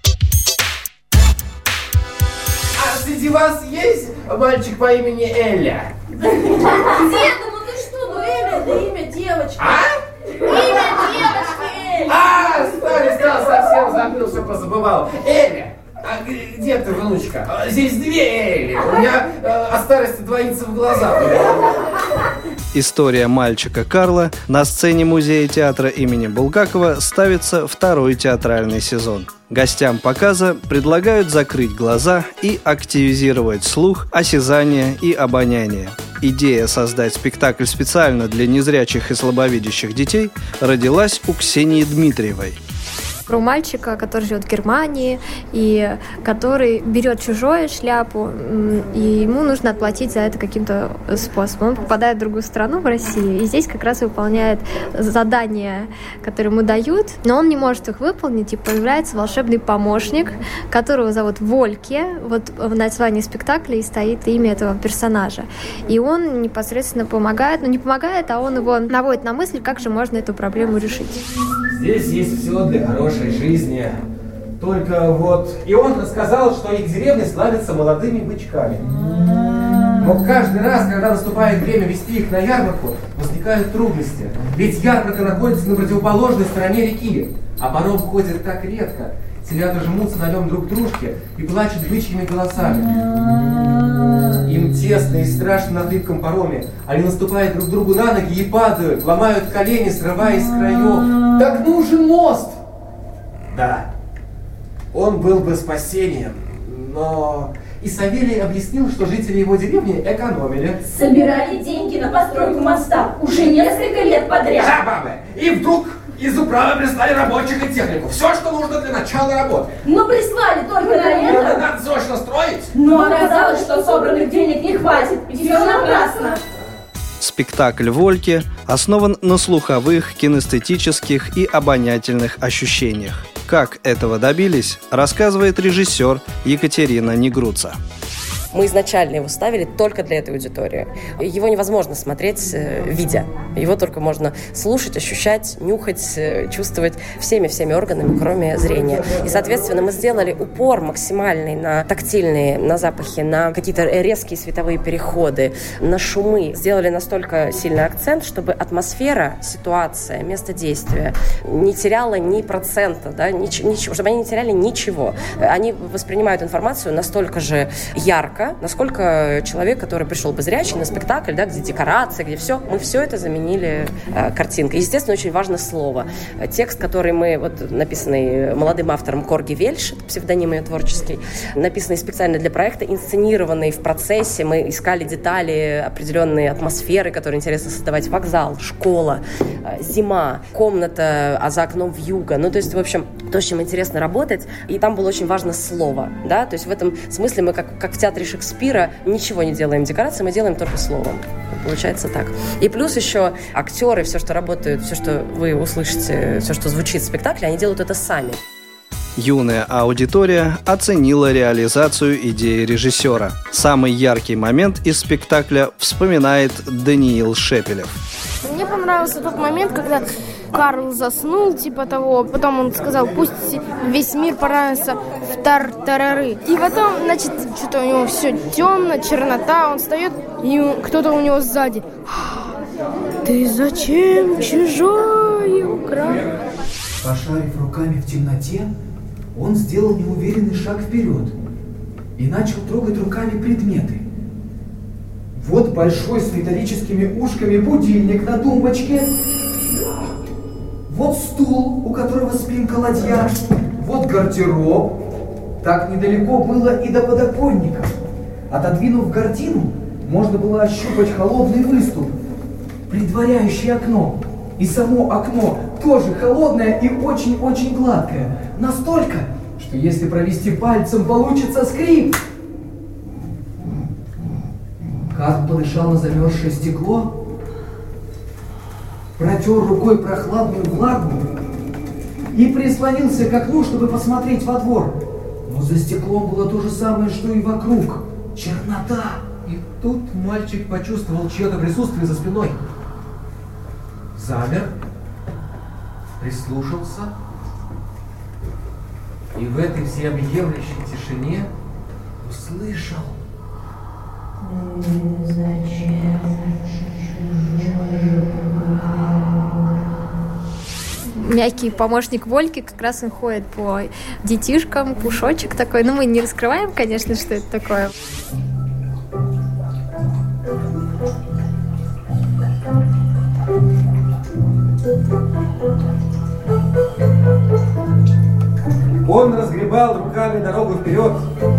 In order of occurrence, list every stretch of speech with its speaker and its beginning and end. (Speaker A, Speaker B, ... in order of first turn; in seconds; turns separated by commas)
Speaker A: 2.8-5.9, Speaker B: 6.8-9.6, Speaker A: 9.6-9.9, Speaker B: 10.5-12.1, Speaker A: 10.6-10.9, Speaker A: 12.1-21.6, Speaker C: 22.7-42.6, Speaker D: 43.3-71.2, Speaker A: 71.7-74.0, Speaker A: 74.6-78.9, Speaker A: 80.0-93.0, Speaker A: 94.4-102.6, Speaker A: 103.5-103.9, Speaker A: 104.9-110.8, Speaker B: 110.9-114.7, Speaker A: 114.5-119.7, Speaker B: 119.8-121.7, Speaker A: 121.0-122.7, Speaker B: 122.8-126.4, Speaker C: 127.2-137.8, Speaker E: 138.5-208.4, Speaker C: 209.2-217.9, Speaker F: 218.4-232.5, Speaker F: 233.2-236.3, Speaker G: 237.0-238.7, Speaker G: 239.3-241.3, Speaker G: 242.2-244.0, Speaker G: 245.3-249.1, Speaker G: 250.9-254.9, Speaker G: 255.6-257.9, Speaker G: 258.5-262.1, Speaker G: 262.9-272.1, Speaker G: 275.1-277.1, Speaker G: 279.2-281.3, Speaker G: 282.3-289.2, Speaker A: 289.4-292.6, Speaker A: 294.1-294.7, Speaker A: 296.2-297.1, Speaker A: 299.3-301.5, Speaker A: 302.2-303.2, Speaker D: 311.1-317.9, Speaker A: 329.1-331.2